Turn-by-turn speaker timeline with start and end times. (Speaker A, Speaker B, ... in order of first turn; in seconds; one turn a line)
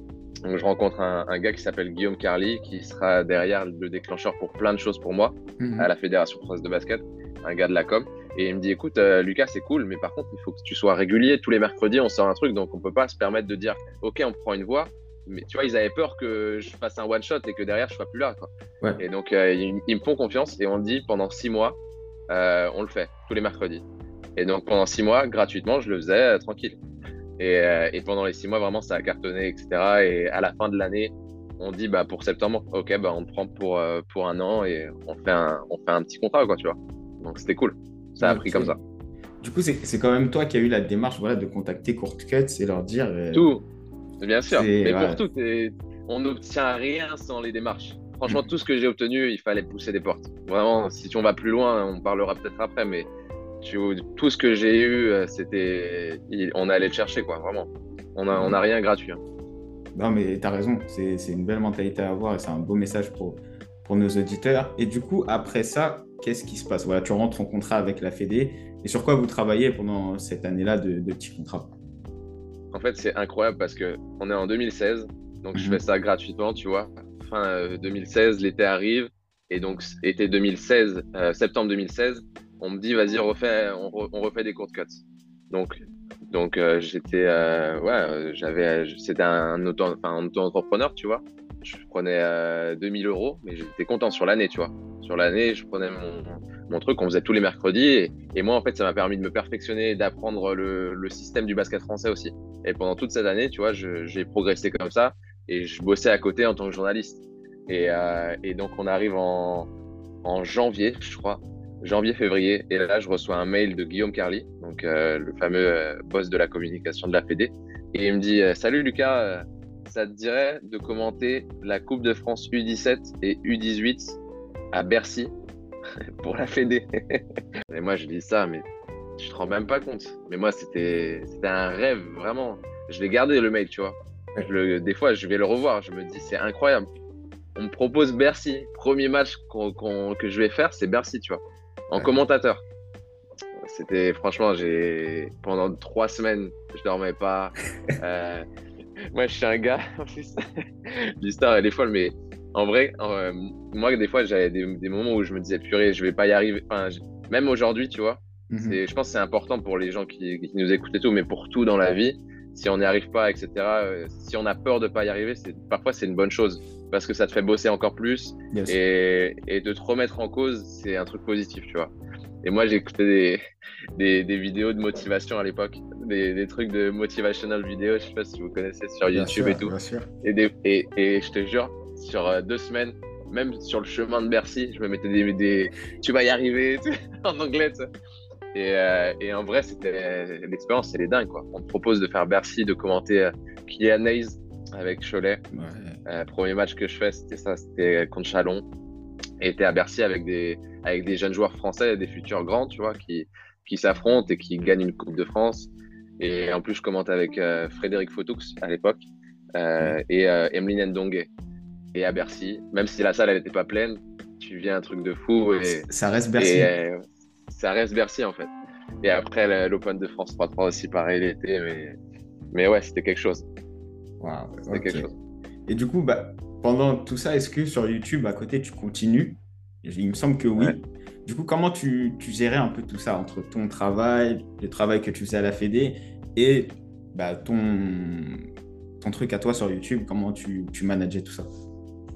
Speaker A: 0.5-21.8
Speaker B: 5.6-5.9
Speaker A: 22.3-23.9
Speaker A: 24.4-26.8
Speaker A: 27.4-38.8
Speaker B: 38.2-38.8
Speaker B: 39.4-43.5
Speaker A: 43.3-43.6
Speaker A: 44.2-53.1
Speaker B: 44.5-45.2
Speaker B: 48.3-48.5
Speaker A: 53.6-59.2
Speaker B: 58.3-58.6
Speaker B: 59.9-71.7
Speaker A: 72.7-109.7
Speaker B: 75.5-75.8
Speaker A: 110.2-124.2
Speaker A: 124.7-125.3
Speaker A: 126.2-128.6
Speaker A: 129.2-136.9
Speaker A: 137.6-142.6
Speaker A: 143.6-148.5
Speaker A: 149.1-171.9
Speaker B: 158.5-158.8
Speaker B: 168.5-168.8
Speaker A: 172.4-173.4
Speaker A: 174.0-187.8
Speaker B: 179.1-180.1
Speaker A: 188.5-195.4
Speaker B: 195.5-196.0
Speaker A: 196.1-198.7
Speaker A: 199.4-211.3
Speaker A: 211.9-215.9
Speaker B: 215.7-216.7
Speaker A: 216.4-218.5
Speaker A: 219.0-222.0
Speaker A: 222.5-223.4
Speaker B: 224.2-225.1
Speaker A: 224.7-225.1
Speaker B: 225.7-238.4
Speaker B: 239.0-241.5